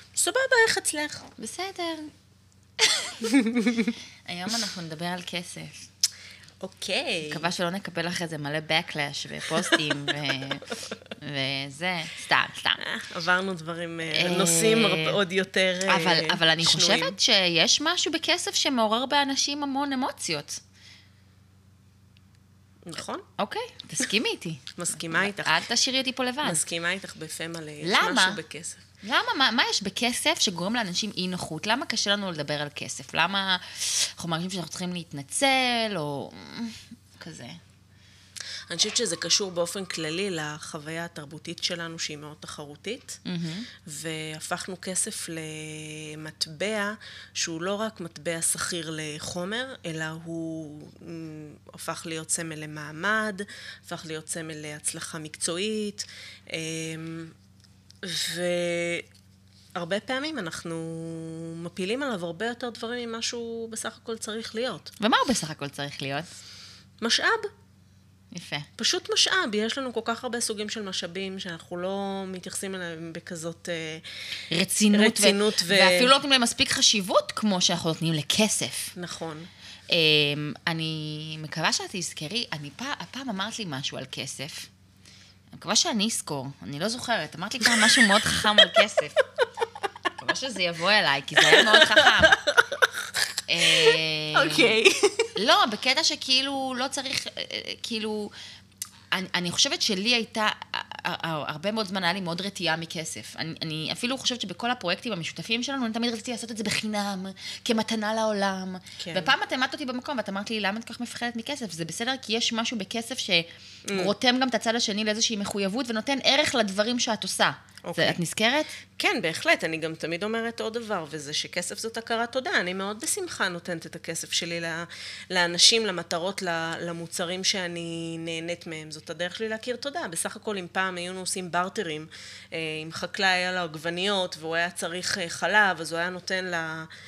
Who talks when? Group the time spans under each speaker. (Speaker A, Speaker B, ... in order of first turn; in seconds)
Speaker A: 0.1-1.3, 3.4-3.9, 6.6-7.5, 12.8-17.1, 22.9-23.2, 24.8-25.6, 26.4-28.8, 38.7-43.2, 43.8-57.4, 58.0-59.1, 59.8-64.9, 67.0-67.5, 68.8-74.0, 74.9-76.1, 79.0-79.5, 87.6-88.0, 91.4-93.0, 93.6-95.3, 109.0-109.3, 113.9-114.1, 117.8-118.2, 119.0-136.9
Speaker B: 1.4-2.1, 2.8-3.3, 4.3-5.9, 7.2-12.8, 14.1-15.2, 15.9-20.6, 23.4-26.6, 27.8-28.4, 29.0-37.6, 43.2-43.7, 65.0-66.3, 68.3-68.7, 74.5-78.9, 79.9-84.7, 85.5-89.2, 90.2-92.4, 93.5-94.8, 95.4-98.3, 99.1-118.8